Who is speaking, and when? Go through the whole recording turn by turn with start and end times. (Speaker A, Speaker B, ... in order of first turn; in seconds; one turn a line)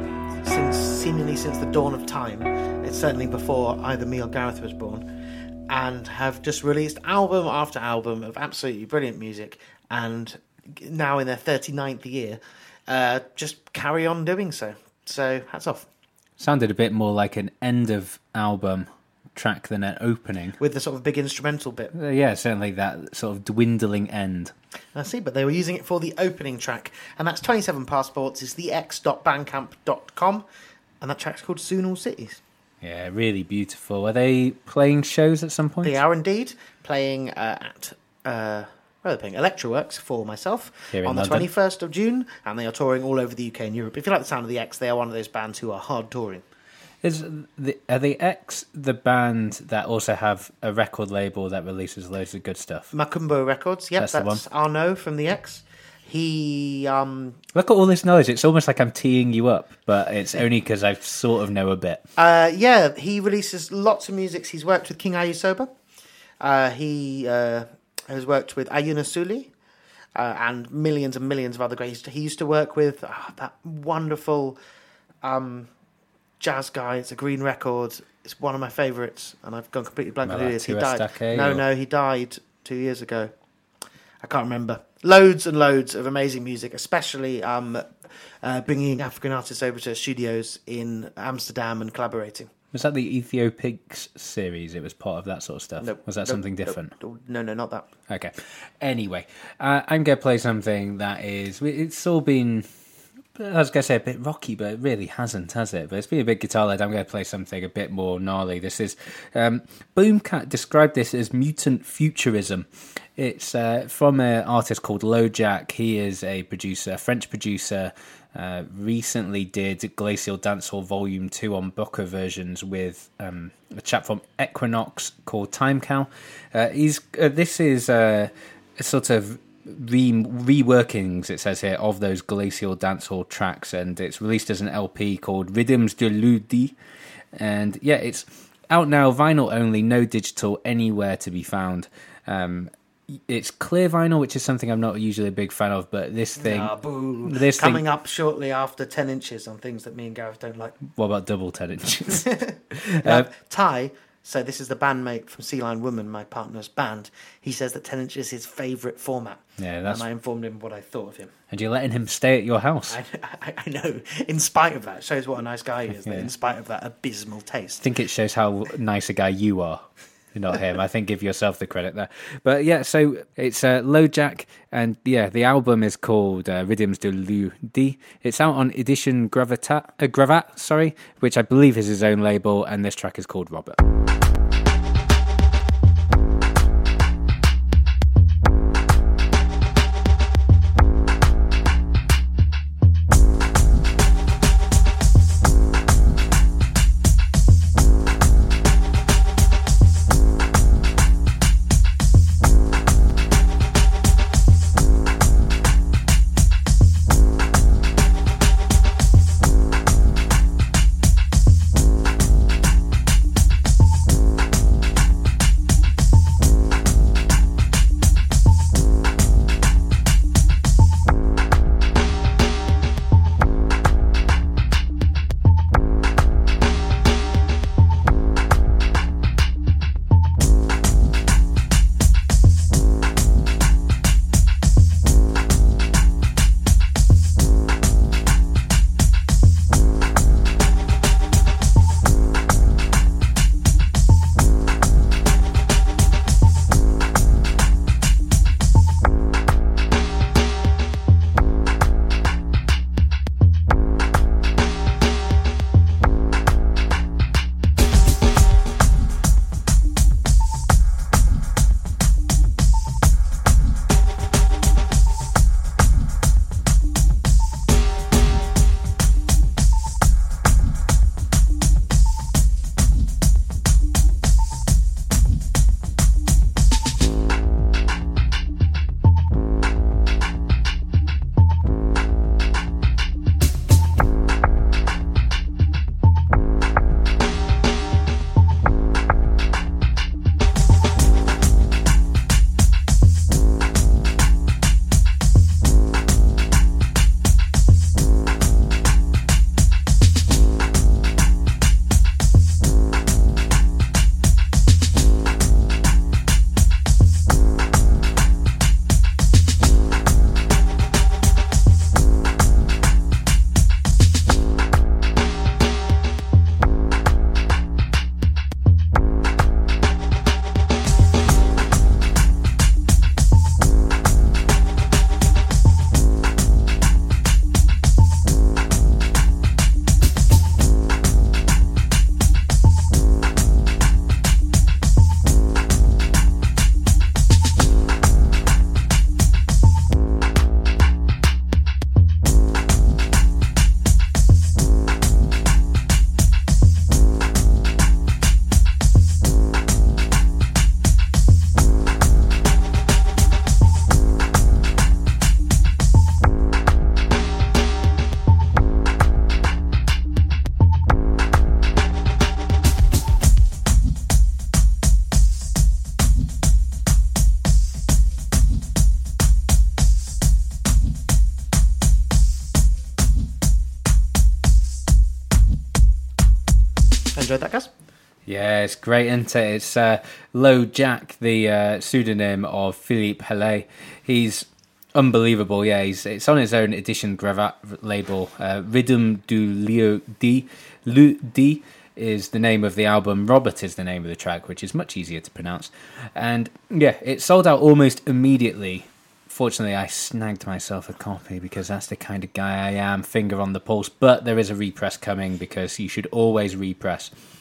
Speaker A: 0.4-5.1
Speaker A: 5.7-15.9
Speaker B: 16.4-20.6
Speaker A: 20.6-21.9
Speaker B: 21.9-24.5
Speaker A: 24.9-30.4
Speaker A: 31.0-32.4
Speaker B: 32.8-36.0
Speaker A: 35.8-46.4
Speaker B: 40.9-41.5
Speaker B: 47.0-52.9
Speaker A: 52.9-57.4
Speaker B: 54.0-54.4
Speaker B: 57.5-62.0
Speaker A: 62.2-65.7
Speaker A: 66.4-69.5
Speaker A: 70.2-74.6
Speaker A: 75.2-75.7
Speaker A: 76.4-83.3
Speaker B: 80.2-81.6
Speaker A: 84.2-92.5
Speaker B: 92.7-96.9
Speaker A: 95.8-97.9
Speaker B: 98.1-102.7
Speaker B: 103.3-112.7
Speaker B: 113.2-136.7
Speaker B: 137.3-146.7
Speaker A: 146.4-150.8
Speaker B: 147.2-147.8
Speaker B: 150.9-152.3
Speaker A: 152.2-161.3
Speaker B: 152.8-153.3
Speaker B: 159.6-160.0
Speaker B: 161.5-163.0
Speaker A: 162.9-167.8
Speaker B: 167.8-183.8
Speaker A: 377.1-377.7
Speaker B: 378.2-407.1